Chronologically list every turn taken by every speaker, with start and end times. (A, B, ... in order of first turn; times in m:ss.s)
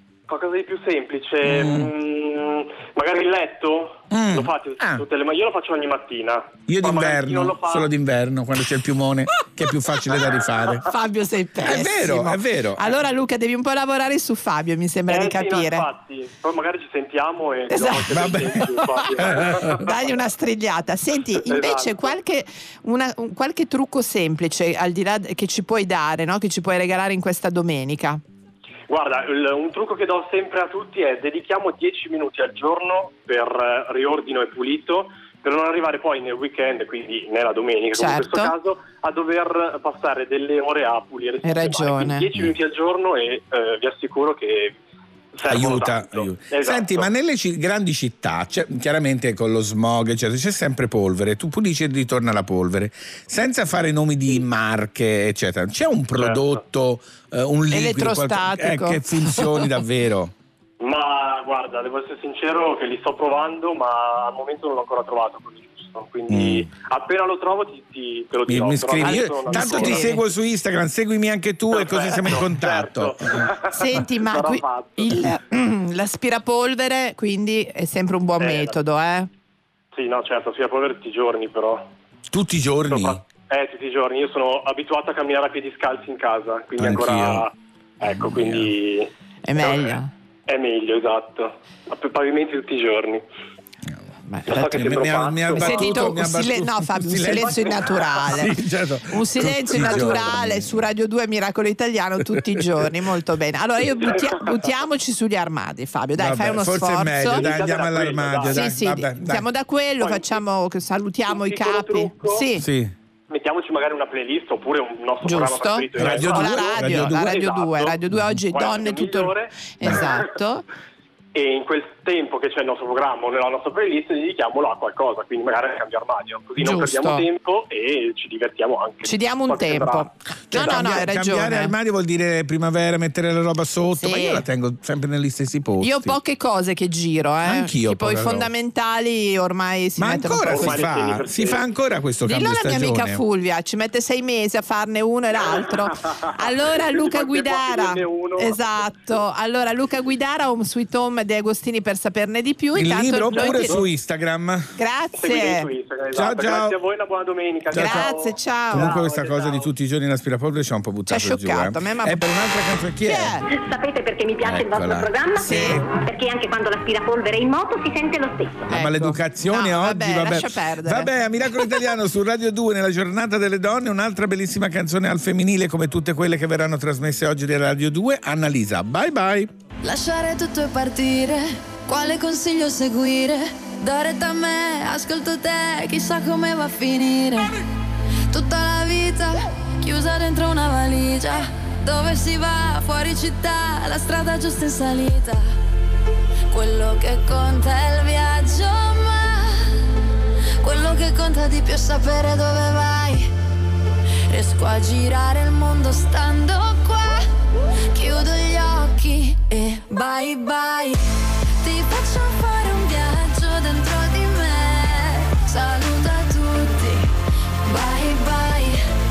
0:00.3-0:07.9 A
0:01.4-0:01.9 B
0:04.1-0:05.0 B
0:06.7-0:10.8 B
0:10.8-0:15.8 C
0:11.6-0:12.9 B
0:15.1-0:19.9 A
0:17.7-0:19.1 C
0:18.1-0:18.6 B
0:19.2-0:19.8 B
0:19.7-0:28.2 C
0:21.4-0:22.2 A
0:28.9-0:44.7 A
0:37.9-0:38.5 C
0:41.4-0:42.2 C
0:45.4-0:47.1 A
0:45.5-1:00.3 B
0:56.2-0:56.6 A
0:57.7-0:59.7 C
1:00.8-1:10.2 A
1:06.3-1:06.7 B
1:08.5-1:13.4 B
1:09.0-1:10.2 C
1:11.7-1:15.2 A
1:13.7-1:19.3 C
1:18.4-1:18.7 A
1:20.0-1:21.8 A
1:22.3-1:23.2 B
1:22.9-1:29.1 A
1:26.8-1:27.4 B
1:28.1-1:28.7 B
1:29.4-1:30.1 C
1:29.6-1:29.9 A
1:30.5-1:33.2 A
1:34.3-1:34.7 C
1:34.5-1:40.8 B
1:34.5-1:35.9 A
1:35.6-1:38.5 C
1:39.1-1:47.4 C
1:42.6-1:42.8 B
1:46.2-1:49.4 B
1:47.3-1:48.6 A
1:48.5-1:52.6 C
1:50.0-1:50.4 A
1:51.3-1:52.4 A
1:52.6-1:52.9 B
1:53.3-1:58.0 A
1:55.2-2:00.6 C
1:55.9-1:57.4 B
1:58.5-2:00.2 A
2:01.3-2:10.1 A
2:06.6-2:07.2 C
2:09.0-2:11.7 C
2:10.5-2:16.2 B
2:14.0-2:14.4 C
2:15.8-2:20.8 C
2:17.4-2:18.5 B
2:20.0-2:23.2 B
2:20.4-2:21.6 A
2:22.2-2:33.8 C
2:26.5-2:28.8 A
2:32.7-2:34.7 B
2:33.3-2:33.9 A
2:34.8-2:35.7 C
2:35.2-2:39.7 A
2:36.1-2:36.8 B
2:37.7-2:38.1 B
2:37.7-2:38.9 C
2:38.7-2:43.4 B
2:41.1-2:42.3 C
2:43.0-2:43.4 C
2:43.5-2:48.6 D
2:44.4-2:45.8 B
2:45.4-2:45.8 C
2:48.7-2:51.1 C
2:48.7-2:59.5 B
2:59.8-3:07.5 E
3:08.3-3:15.5 E
3:16.5-3:19.8 E
3:20.6-3:23.3 E
3:24.3-3:27.2 E
3:27.9-3:37.1 E
3:37.6-3:38.9 E